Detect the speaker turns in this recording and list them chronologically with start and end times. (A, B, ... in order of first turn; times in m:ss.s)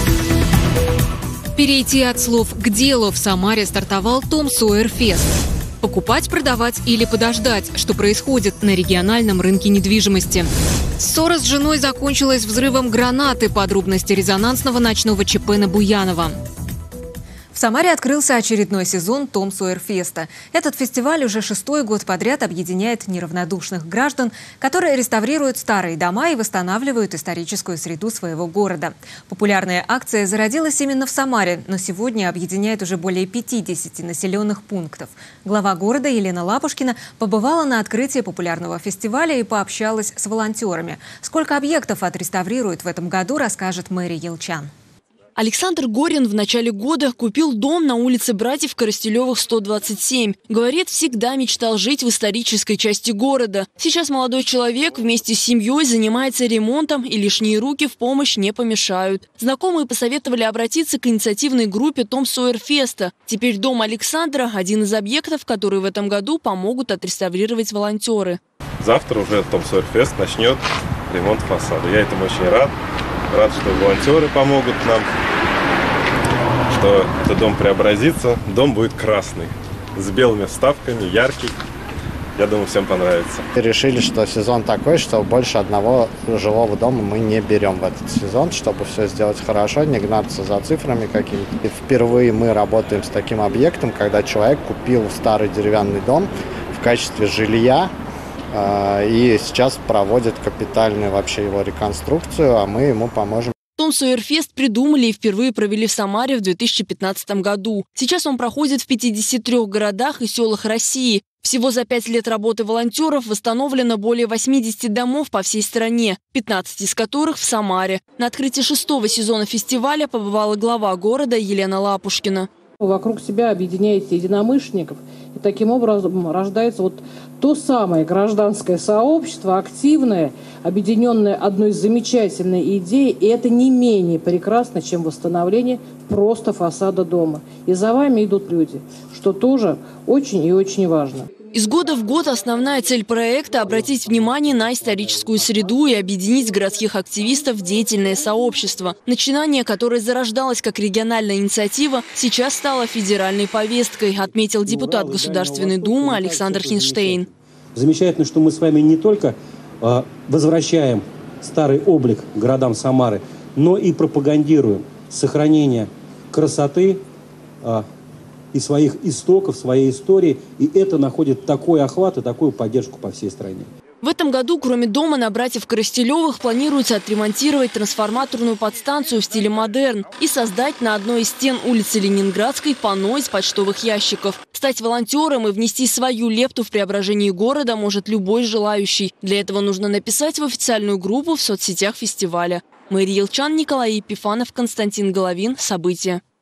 0:01.5-0:05.3 A
0:05.8-0:16.4 A
0:17.5-0:44.7 A
0:45.4-1:08.4 B
1:08.8-1:12.7 C
1:13.3-1:15.1 C
1:16.7-1:21.5 C
1:22.4-1:23.5 C
1:23.5-1:37.9 D
1:38.5-1:43.5 D
1:43.8-2:02.5 B
2:02.8-2:21.3 E
2:21.5-2:37.3 B
2:23.9-2:25.4 F
2:34.6-2:47.0 F
2:48.5-2:53.7 F
2:54.0-3:16.2 B